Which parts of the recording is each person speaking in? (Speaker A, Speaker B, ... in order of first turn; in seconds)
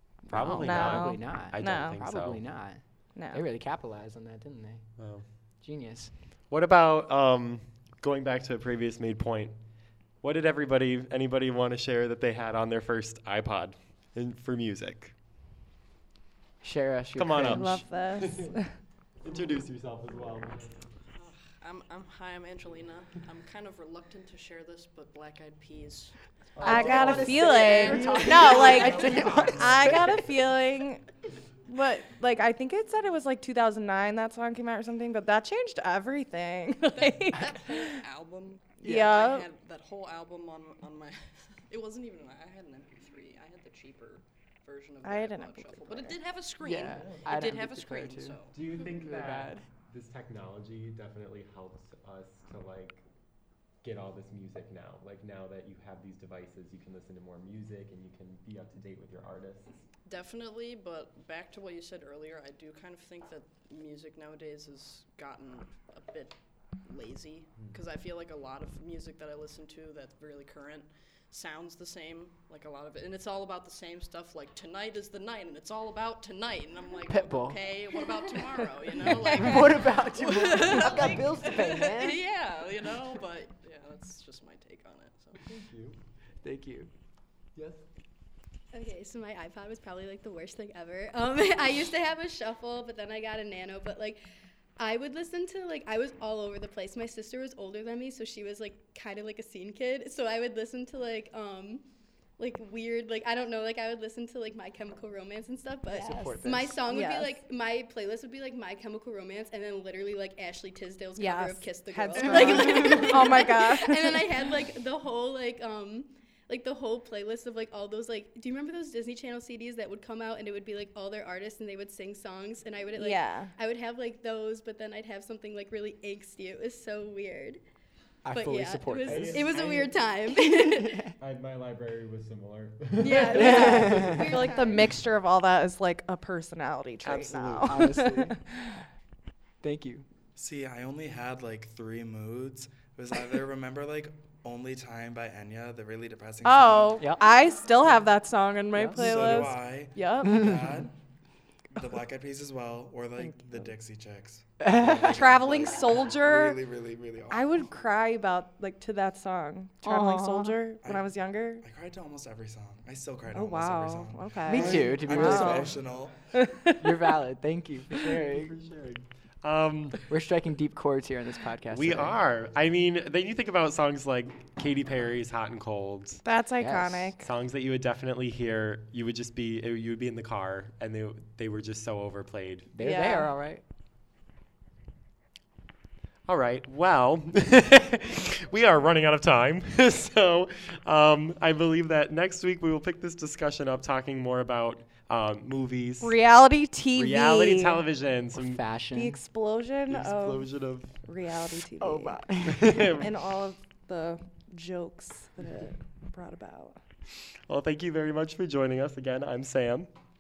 Speaker A: 0.2-6.1, 16.6-17.8, 26.6-30.2, 38.8-39.1, 46.6-49.6, 77.1-77.6, 79.0-82.2, 86.4-86.9, 105.9-106.8, 128.2-129.5, 133.3-134.4, 137.6-138.4, 139.6-140.1, 147.0-147.2, 148.8-149.4, 154.6-155.2, 159.8-160.6, 164.5-165.7, 166.8-168.6, 170.1-172.2, 176.6-177.1, 182.7-183.6, 198.3-199.2, 201.8-202.9
Speaker B: 0.3-2.4, 5.0-5.3, 6.5-9.6, 10.2-15.1, 17.2-18.6, 19.2-20.7, 26.6-28.3, 46.9-47.3, 48.5-53.0, 53.8-59.7, 85.5-86.0, 87.6-87.8, 129.1-130.1, 131.2-134.4, 137.0-137.8, 168.0-170.0, 171.7-176.2, 177.2-182.7, 186.3-196.2, 196.9-198.6, 199.9-200.9, 202.4-203.1, 207.5-209.9
Speaker C: 0.5-2.0, 3.2-3.4, 17.4-18.7, 26.6-31.0, 31.7-38.0, 38.8-39.5, 45.0-46.2, 106.8-107.4, 111.2-114.6, 122.9-123.5, 133.2-138.7, 146.4-150.8, 155.1-156.6, 157.3-161.7, 163.3-165.7, 166.3-166.9, 176.2-177.2, 182.8-183.3, 196.0-197.8, 198.9-202.2, 203.0-206.8
Speaker D: 21.2-26.2, 26.8-29.1, 37.0-48.5, 60.1-66.3, 66.8-85.4, 112.4-112.9
Speaker E: 88.7-94.2, 94.8-101.8, 102.4-127.6, 128.3-131.0, 133.0-134.8
Speaker F: 140.4-147.2, 148.9-150.9, 151.8-157.7, 160.8-166.2